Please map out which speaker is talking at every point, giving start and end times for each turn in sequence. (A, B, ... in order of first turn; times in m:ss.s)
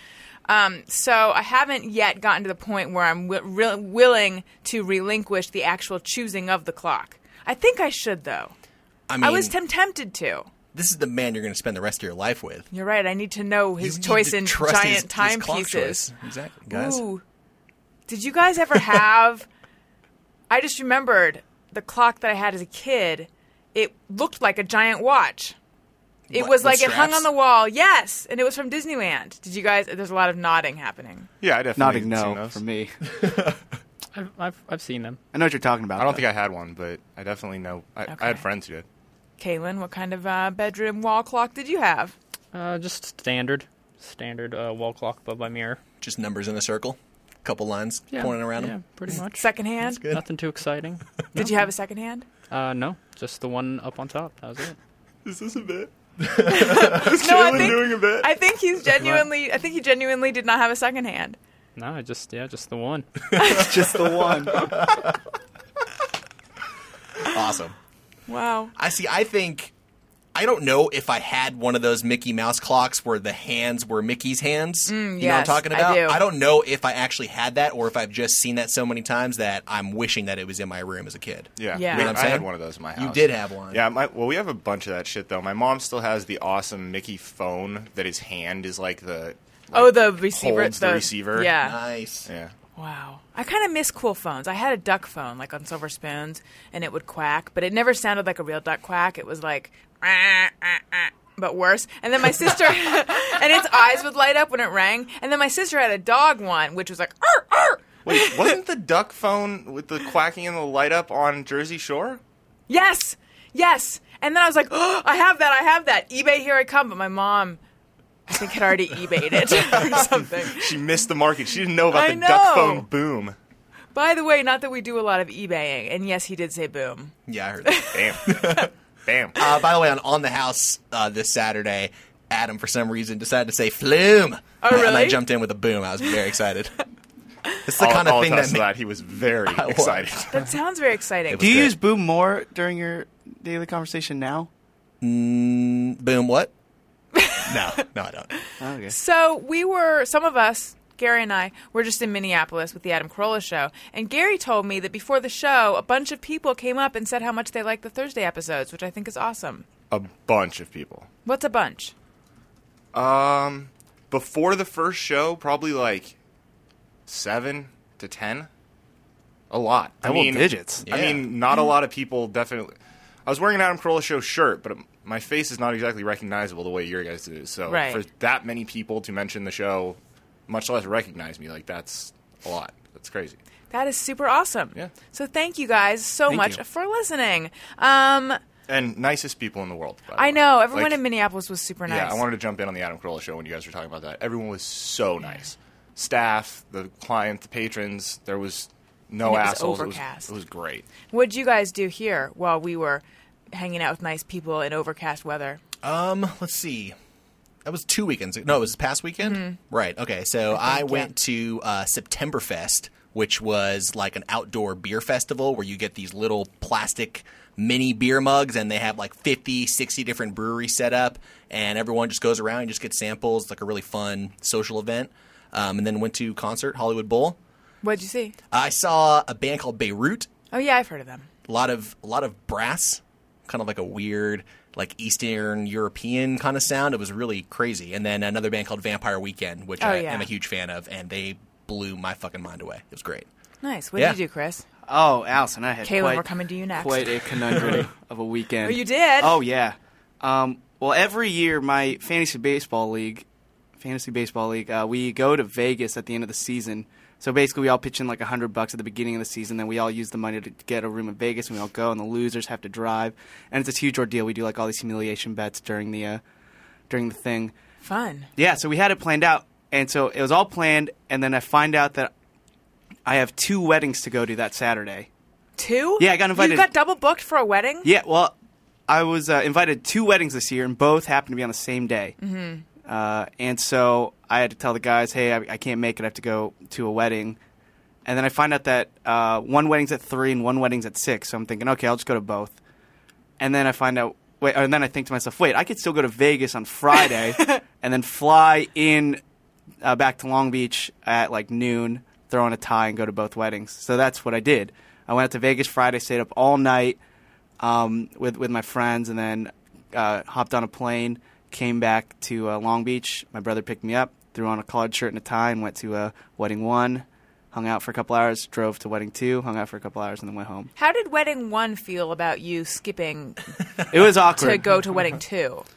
0:00.5-0:08.5 A
0:09.1-0:09.6 B
0:09.2-0:10.5 A
0:10.7-0:12.7 B
0:12.7-0:16.1 A
0:13.8-0:17.0 B
0:16.7-0:17.2 A
0:18.1-0:19.5 A
0:20.5-0:25.6 A
0:26.3-0:27.3 B
0:26.3-0:31.3 A
0:31.4-0:32.6 C
0:31.8-0:32.9 D
0:34.1-0:35.2 E
0:35.3-0:36.2 D
0:36.0-0:38.9 C
0:38.1-0:38.4 A
0:39.4-0:42.2 A
0:42.5-0:45.8 E
0:46.0-0:49.2 B
0:48.1-0:49.5 E
0:49.4-0:50.0 A
0:50.1-0:51.6 E
0:51.4-0:52.3 A
0:52.5-0:54.8 E
0:55.2-0:55.9 C
0:56.4-0:56.9 B
0:56.5-1:01.4 A
0:56.8-0:58.3 C
1:01.8-1:03.1 E
1:03.4-1:03.7 A
1:03.6-1:04.6 D
1:07.3-1:07.8 B
1:08.3-1:08.7 A
1:08.8-1:09.7 B
1:10.3-1:23.8 B
1:14.9-1:16.2 A
1:21.6-1:31.6 C
1:21.7-1:22.2 A
1:29.7-1:31.8 A
1:31.6-1:32.3 B
1:32.3-1:32.5 C
1:32.8-1:48.6 A
1:48.0-1:52.2 C
1:52.7-1:57.6 A
1:58.3-2:00.8 A
1:59.7-2:03.4 C
2:01.9-2:02.9 A
2:03.9-2:08.7 A
2:07.3-2:08.7 B
2:07.9-2:08.3 C
2:09.0-2:09.4 C
2:09.4-2:16.8 B
2:14.6-2:15.2 A
2:17.7-2:18.7 B
2:17.8-2:20.3 C
2:19.5-2:20.3 B
2:20.3-2:21.5 A
2:21.3-2:21.8 B
2:21.4-2:24.5 D
2:25.0-2:26.5 B
2:27.2-2:27.8 A
2:27.4-2:28.3 B
2:28.6-2:29.0 D
2:28.9-2:39.6 A
2:39.9-2:41.1 C
2:41.2-2:41.9 A
2:42.9-2:46.2 C
2:47.1-2:48.5 C
2:49.5-3:03.4 C
2:50.0-2:50.9 D
2:50.9-2:51.3 B
2:57.7-2:58.0 A
3:03.7-3:08.4 A
3:06.3-3:06.6 D
3:08.7-3:11.0 C
3:10.2-3:12.2 A
3:11.9-3:20.9 C
3:19.2-3:20.3 A
3:21.0-3:25.6 A
3:25.8-3:27.0 B
3:27.6-3:47.4 B
3:29.2-3:29.6 A
3:30.5-3:31.1 A
3:47.8-3:48.4 A
3:48.5-3:50.3 B
3:50.5-3:51.3 A
3:51.5-4:03.3 B
3:59.8-4:00.3 A
4:03.6-4:04.6 A
4:04.9-4:13.2 D
4:05.8-4:07.7 A
4:08.6-4:09.4 A
4:13.8-4:26.2 D
4:26.9-4:27.5 D
4:27.8-4:28.3 A
4:28.4-4:32.1 D
4:33.0-4:35.1 D
4:35.6-4:37.9 A
4:36.0-4:36.7 D
4:37.8-4:38.4 D
4:38.9-4:42.2 D
4:42.2-4:42.6 A
4:42.8-4:47.4 D
4:48.0-4:52.6 D
4:53.4-4:59.2 D
4:59.8-5:07.0 D
5:07.6-5:20.7 D
5:20.8-5:23.4 A
5:23.9-5:24.7 D
5:24.2-5:25.7 A